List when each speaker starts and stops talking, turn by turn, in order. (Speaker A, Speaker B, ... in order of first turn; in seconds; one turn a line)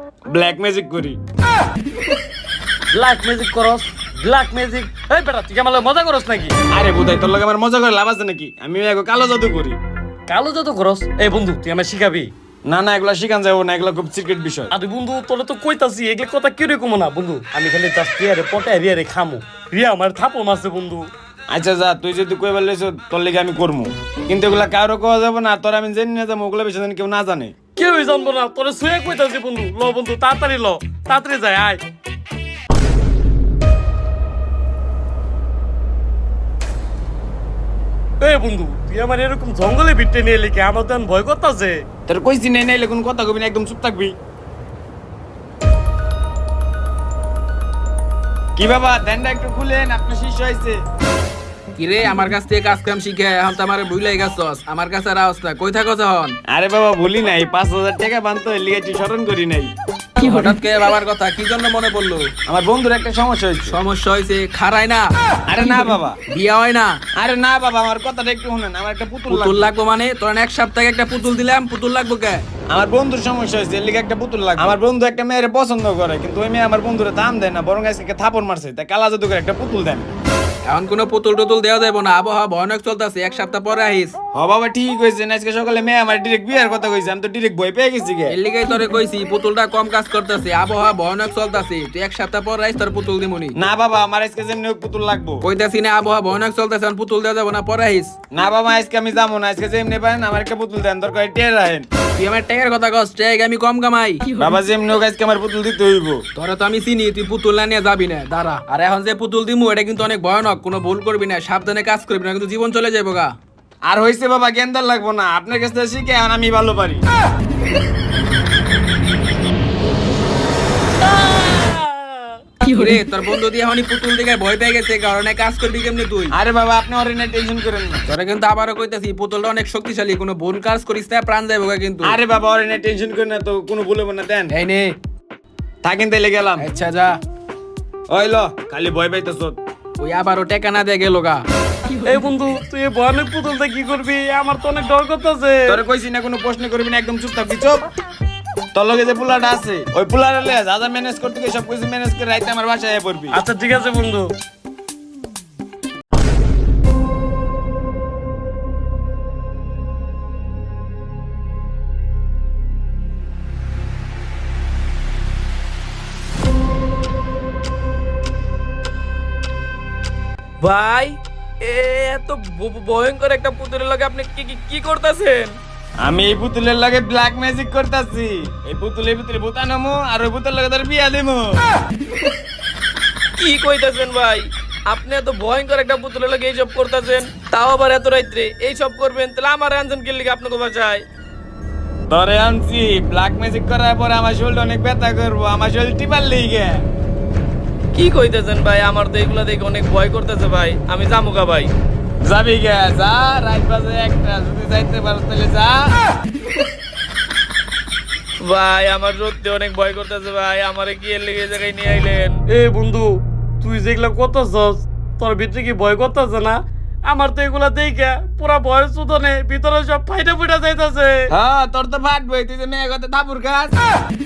Speaker A: 0.3-1.2
Speaker B: 2.9-6.6
Speaker A: 6.7-9.8
Speaker B: 10.3-12.3
Speaker A: 12.6-14.7
Speaker B: 14.7-21.1
Speaker A: 21.5-27.5
Speaker B: 27.8-31.8
Speaker B: 38.2-41.8
Speaker A: 42.1-44.1
Speaker A: 48.5-50.8
Speaker C: 51.8-56.4
Speaker A: 56.5-59.7
Speaker C: 60.2-62.3
Speaker A: 62.5-63.8
Speaker C: 63.7-65.1
Speaker A: 65.5-66.2
Speaker C: 65.6-67.0
Speaker A: 67.2-69.6
Speaker C: 69.3-72.4
Speaker A: 72.7-80.1
Speaker C: 80.7-84.2
Speaker A: 84.3-88.3
Speaker C: 88.3-93.6
Speaker A: 93.5-95.5
Speaker C: 95.4-98.2
Speaker A: 98.3-101.8
Speaker C: 102.2-104.4
Speaker A: 104.4-106.2
Speaker C: 106.3-113.3
Speaker A: 113.8-117.0
Speaker B: 121.0-122.4
Speaker C: 122.6-126.3
Speaker A: 126.3-128.0
Speaker C: 128.1-132.2
Speaker A: 132.0-134.5
Speaker C: 134.5-134.9
Speaker A: 135.8-136.7
Speaker C: 136.6-137.2
Speaker A: 138.1-139.6
Speaker C: 140.0-141.4
Speaker B: 142.0-145.8
Speaker A: 145.7-147.9
Speaker A: 148.7-153.4
Speaker B: 153.3-154.3
Speaker D: 170.6-175.6
Speaker A: 176.0-181.6
Speaker D: 183.4-191.0
Speaker A: 192.1-196.8
Speaker D: 197.9-201.7
Speaker A: 202.2-205.9
Speaker D: 208.4-212.4
Speaker B: 212.5-221.3
Speaker A: 221.3-223.7